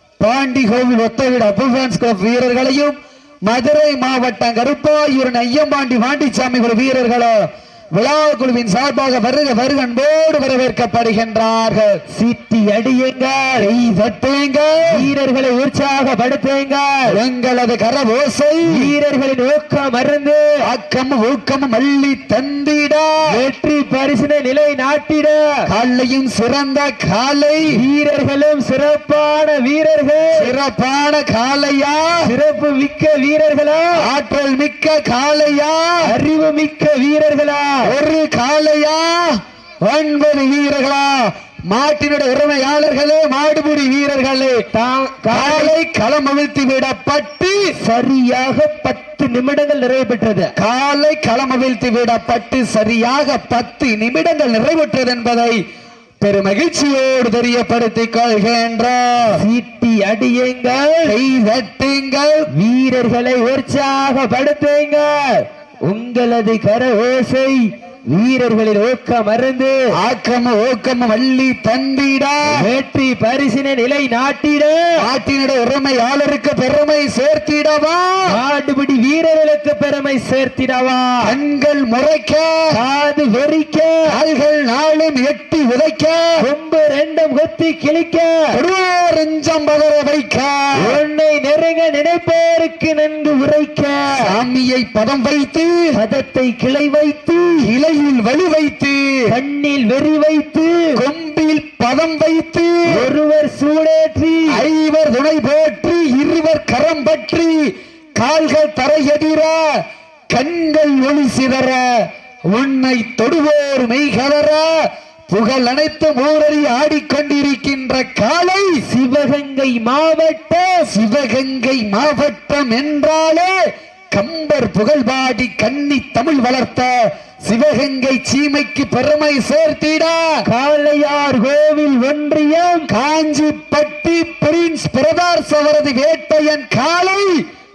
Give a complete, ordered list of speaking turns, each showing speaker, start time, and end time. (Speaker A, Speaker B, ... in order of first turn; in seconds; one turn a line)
Speaker A: 0.2-7.4
Speaker A: 7.9-12.0
Speaker B: 12.1-13.7
Speaker A: 13.6-14.9
Speaker B: 14.9-17.2
Speaker A: 17.1-18.9
Speaker B: 18.7-20.4
Speaker A: 20.6-23.1
Speaker B: 23.3-25.4
Speaker A: 25.7-27.8
Speaker B: 27.7-30.5
Speaker A: 30.3-32.2
Speaker B: 32.2-34.0
Speaker A: 34.0-36.0
Speaker B: 36.0-37.9
Speaker A: 37.8-44.6
Speaker B: 44.7-45.7
Speaker A: 45.3-47.6
Speaker B: 47.8-50.5
Speaker A: 50.5-55.6
Speaker A: 56.2-59.3
Speaker B: 59.3-61.1
Speaker A: 61.0-62.5
Speaker B: 62.5-69.7
Speaker A: 70.0-72.6
Speaker B: 72.5-74.9
Speaker A: 75.0-78.3
Speaker B: 78.3-81.3
Speaker A: 81.2-82.6
Speaker B: 82.7-84.1
Speaker A: 84.1-86.3
Speaker B: 86.4-88.5
Speaker A: 88.5-91.0
Speaker B: 90.8-94.2
Speaker A: 94.2-95.8
Speaker B: 96.0-97.7
Speaker A: 97.6-99.0
Speaker B: 99.3-101.0
Speaker A: 101.0-103.1
Speaker B: 102.9-104.6
Speaker A: 104.5-109.6
Speaker A: 110.3-111.9
Speaker A: 112.5-114.7
Speaker A: 115.3-118.8
Speaker B: 118.8-120.9
Speaker A: 120.9-123.5
Speaker A: 124.1-130.3
Speaker B: 130.4-132.9
Speaker A: 132.9-137.4